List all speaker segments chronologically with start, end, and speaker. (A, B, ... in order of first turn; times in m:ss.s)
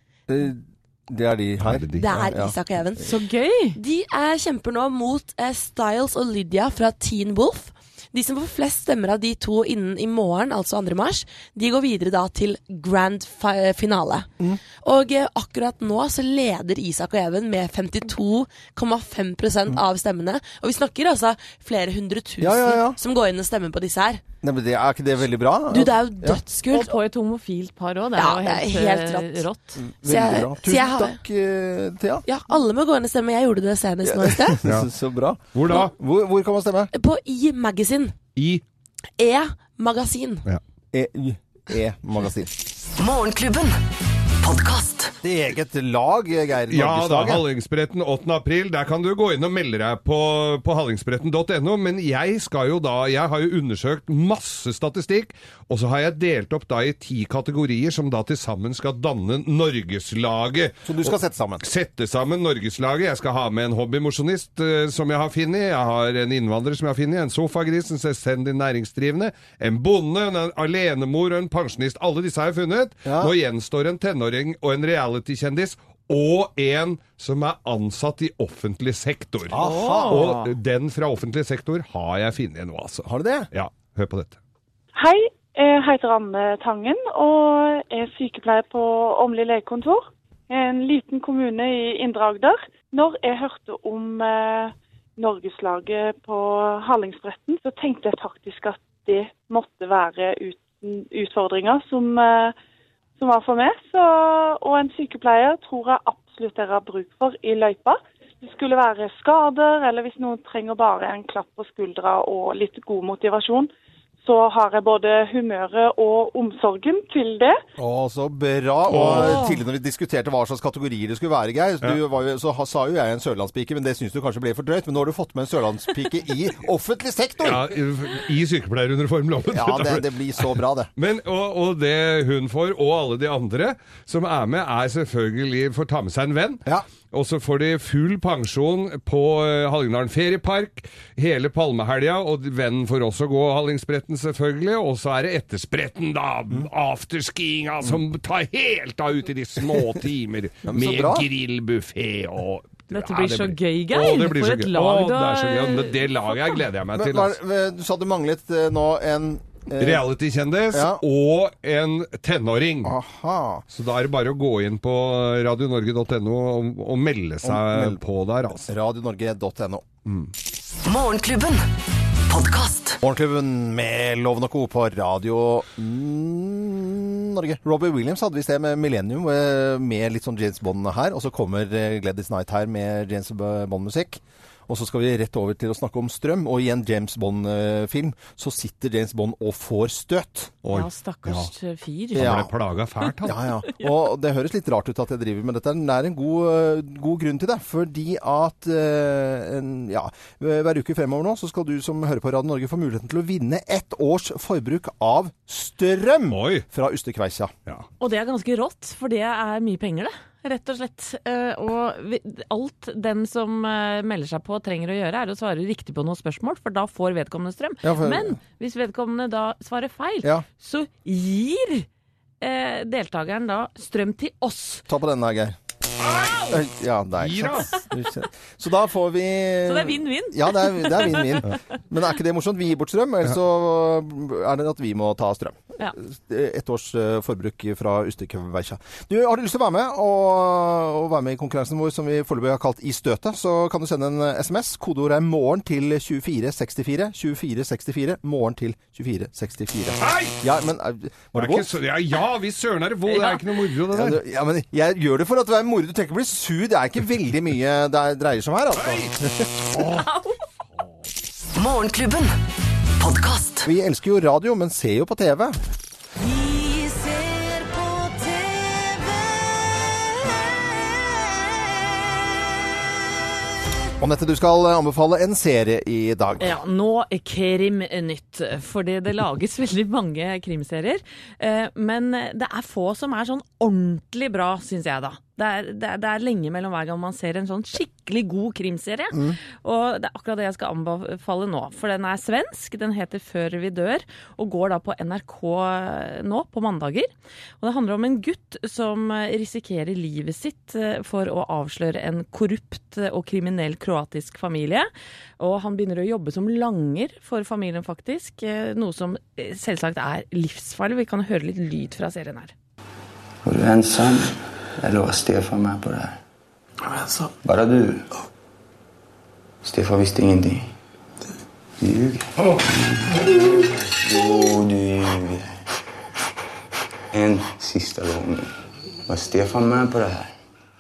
0:00.3-0:02.6 A
0:01.6-0:02.1 B
0:02.0-0:03.2 C
0:03.0-0:03.8 D
0:03.8-0:24.2 C
0:22.4-0:23.0 A
0:24.4-0:26.4 A
0:25.7-0:27.0 C
0:26.7-0:29.8 D
0:28.2-0:29.4 C
0:29.8-0:32.2 A
0:30.0-0:31.2 C
0:32.3-0:34.6 C
0:34.0-0:36.9 A
0:35.5-0:35.9 B
0:36.9-0:38.2 C
0:38.4-0:38.6 B
0:39.2-0:40.4 C
0:40.9-0:42.5 A
0:43.0-0:43.8 E
0:44.4-0:45.2 E
0:45.2-0:47.4 A
0:46.7-1:24.4 B
1:00.8-1:01.7 A
1:13.1-1:13.3 A
1:19.5-1:20.3 A
1:19.6-1:20.6 D
1:23.0-1:23.5 A
1:25.0-1:42.5 F
1:43.2-1:57.6 F
1:57.8-2:07.7 A
1:58.9-1:59.4 B
1:59.3-1:59.5 D
2:07.4-2:37.4 B
2:09.4-2:10.9 A
2:30.7-2:31.3 A
2:32.9-2:36.6 D
2:36.9-2:40.0 A
2:39.8-2:42.9 B
2:40.7-2:41.0 A
2:42.8-2:43.6 A
2:43.7-2:48.7 B
2:47.4-2:48.0 A
2:48.6-2:49.9 A
2:50.1-2:50.3 B
2:50.8-2:53.0 E
2:53.0-3:10.6 A
3:10.6-3:11.5 B
3:10.7-3:12.4 D
3:12.1-3:13.4 B
3:12.2-3:12.5 A
3:13.2-3:27.5 A
3:26.3-3:26.6 B
3:28.0-3:41.9 D
3:37.8-3:38.4 A
3:42.4-3:44.8 D
3:44.9-3:45.6 A
3:46.5-4:11.7 A
3:47.2-3:47.7 B
3:49.6-3:51.6 D
4:10.0-4:10.4 B
4:11.3-4:14.2 B
4:13.1-4:13.4 D
4:13.9-4:19.8 A
4:19.9-4:20.4 D
4:21.6-4:23.7 E
4:23.7-4:25.6 A
4:34.0-4:36.6 A
4:36.4-4:57.1 D
4:49.1-4:49.4 A
4:57.6-5:04.9 D
5:05.4-5:12.5 D
5:13.4-5:16.2 G
5:17.4-5:18.1 G
5:19.6-5:20.7 G
5:21.8-5:25.5 G
5:27.1-5:28.5 G
5:29.1-5:30.3 G